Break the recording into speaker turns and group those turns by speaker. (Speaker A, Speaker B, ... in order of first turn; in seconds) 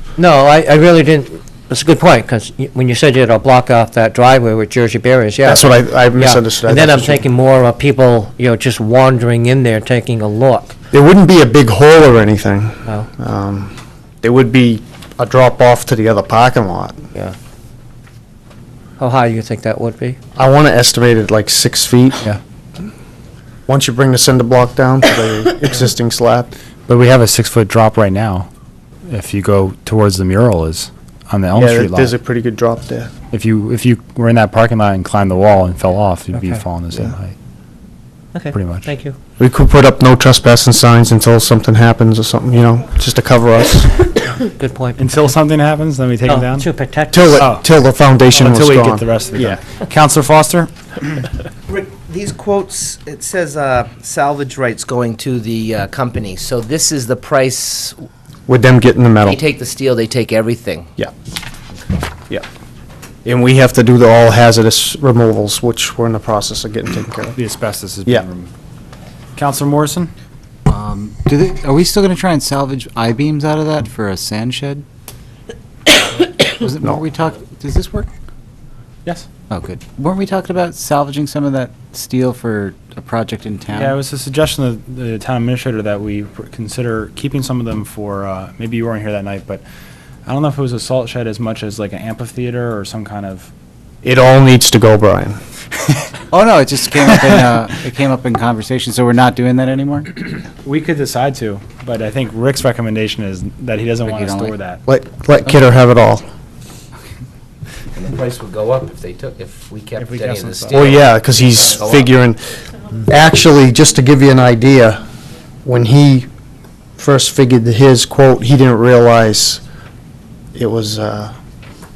Speaker A: 0.2-10.8, 19.0-20.2, 36.4-36.6, 38.3-39.1, 44.4-45.0, 46.3-47.5
Speaker B: 5.4-7.2, 10.9-17.0, 20.4-22.2, 23.7-26.5, 31.5-33.1, 39.4-44.0, 47.1-49.6, 58.5-59.4, 63.2-67.3, 94.0-95.4, 104.8-106.2, 110.7-112.5, 113.0-115.0, 115.6-116.3, 117.0-119.6, 120.5-121.3
Speaker C: 26.9-28.5, 29.1-32.1, 33.3-37.4, 38.5-38.9, 45.0-46.7, 47.4-47.6, 48.3-50.7, 67.3-68.5, 69.3-70.1, 83.7-89.6, 90.2-93.5, 100.6-104.8, 110.0-110.9
Speaker D: 51.7-58.0, 59.2-60.9, 107.9-112.1
Speaker E: 70.7-74.8, 76.0-78.1, 79.5-84.0, 96.3-100.3, 104.0-104.5